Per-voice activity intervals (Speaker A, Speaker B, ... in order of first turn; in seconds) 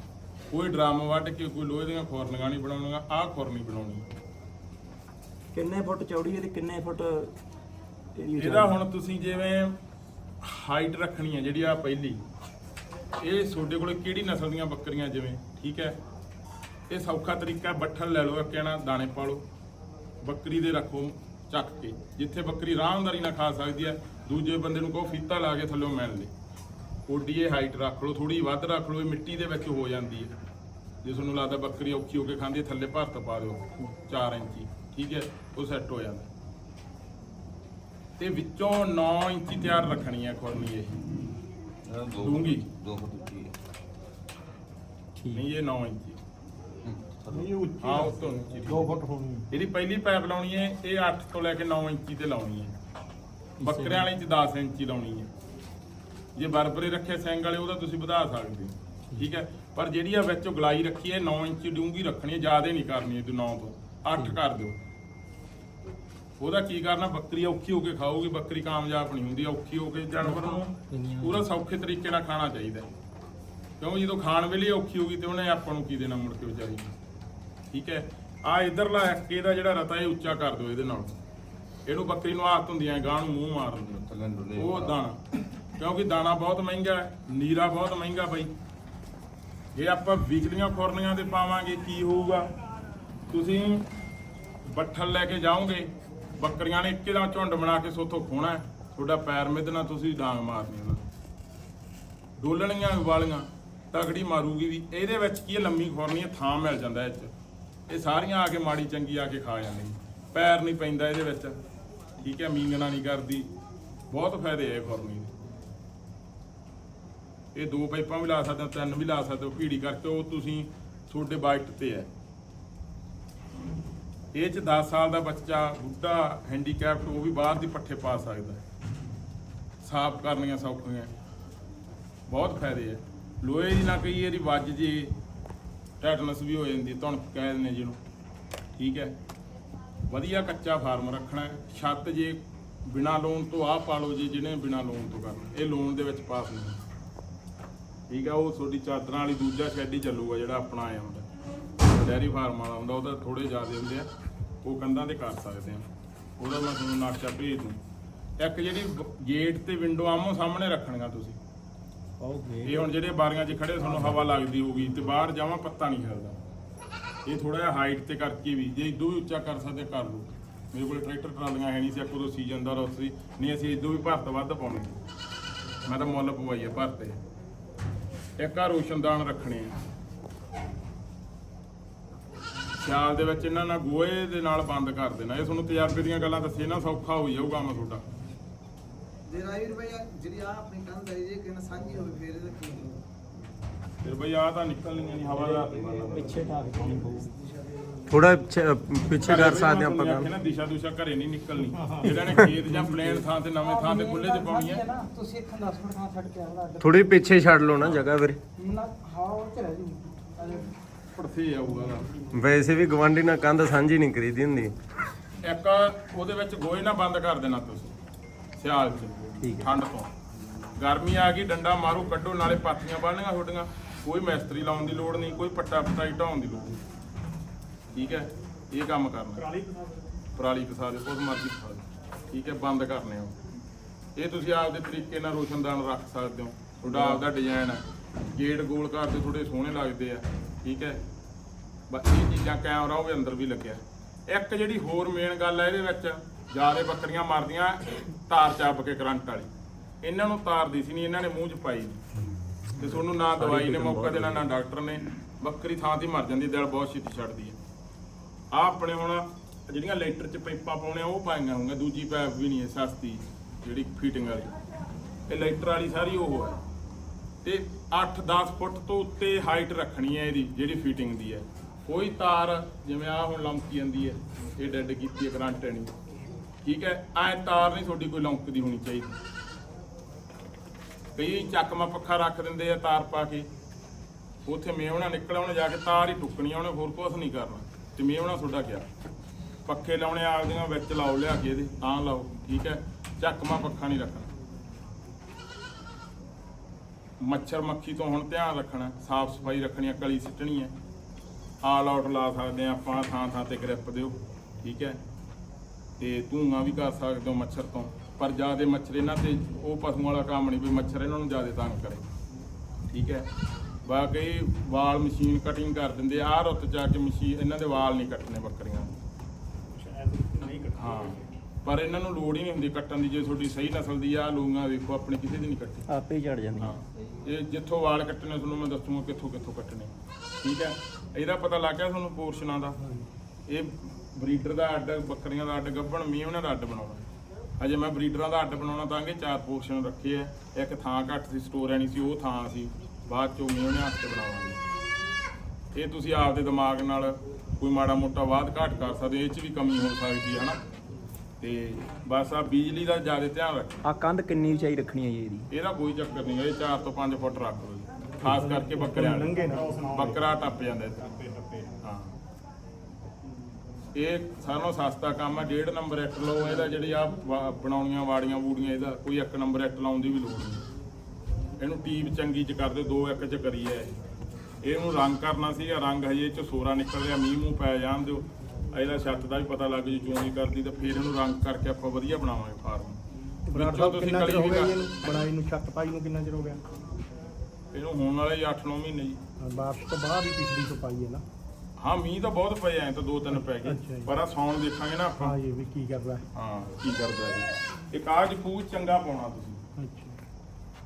Speaker A: 0.5-4.1, 8.4-9.8, 10.4-12.2, 13.2-16.0, 16.9-19.4, 20.2-26.3, 27.1-30.4, 31.0-36.3, 38.2-41.0, 42.2-42.7, 45.3-46.2, 47.8-49.0, 49.5-52.7, 53.6-55.3, 56.4-64.8, 66.4-72.9, 73.8-76.9, 77.7-81.2, 81.9-84.0, 84.5-85.2, 85.8-88.5, 89.8-92.5, 93.3-93.9, 94.7-101.0, 102.4-107.3, 107.9-111.6, 112.2-113.5, 114.1-115.3, 117.5-122.1, 124.3-128.6, 129.8-131.1, 132.3-135.1, 136.0-138.0, 138.8-139.2, 140.1-146.8, 148.1-151.2, 151.8-154.1, 154.6-155.9, 156.4-157.8, 158.4-161.4, 162.6-166.4, 167.2-175.0, 175.9-177.2, 178.4-179.8, 182.8-188.0, 194.0-196.3, 199.2-204.8, 207.8-208.0, 211.1-212.1, 215.4-217.9, 218.6-220.1, 220.8-226.8, 227.9-229.5, 230.3-233.3, 234.2-241.0, 241.9-249.5, 250.0-252.0, 252.8-257.6, 258.5-264.5, 265.3-266.6, 267.4-275.9, 276.6-279.2, 281.2-283.5, 284.4-288.9, 289.7-294.3, 297.2-300.7, 301.6-305.0, 306.0-312.1, 312.9-313.3, 313.9-318.9, 320.8-325.9, 326.6-329.9, 330.4-332.8, 333.5-337.1, 337.6-344.6, 345.7-350.6, 351.4-353.8, 355.5-361.2, 361.8-362.1, 363.9-370.6, 371.6-374.0, 374.6-383.0, 383.5-384.8, 387.7-389.2, 391.8-395.4, 396.3-399.6
Speaker B: 5.5-7.3, 8.2-8.8, 45.2-45.4, 53.6-54.0, 70.2-71.5, 162.2-162.7, 195.4-197.3, 219.4-219.7, 252.8-254.4, 325.9-326.7, 353.9-355.5
Speaker C: 41.9-43.6, 46.8-47.6, 83.9-85.0
Speaker D: 47.3-49.5, 229.4-230.0, 319.8-321.2, 358.2-360.1, 383.5-386.6, 389.4-391.2, 393.6-394.1, 395.2-396.2, 399.8-400.2
Speaker E: 189.3-192.9, 203.6-207.0, 208.6-210.7
Speaker F: 198.1-200.3, 206.8-208.4, 212.3-214.7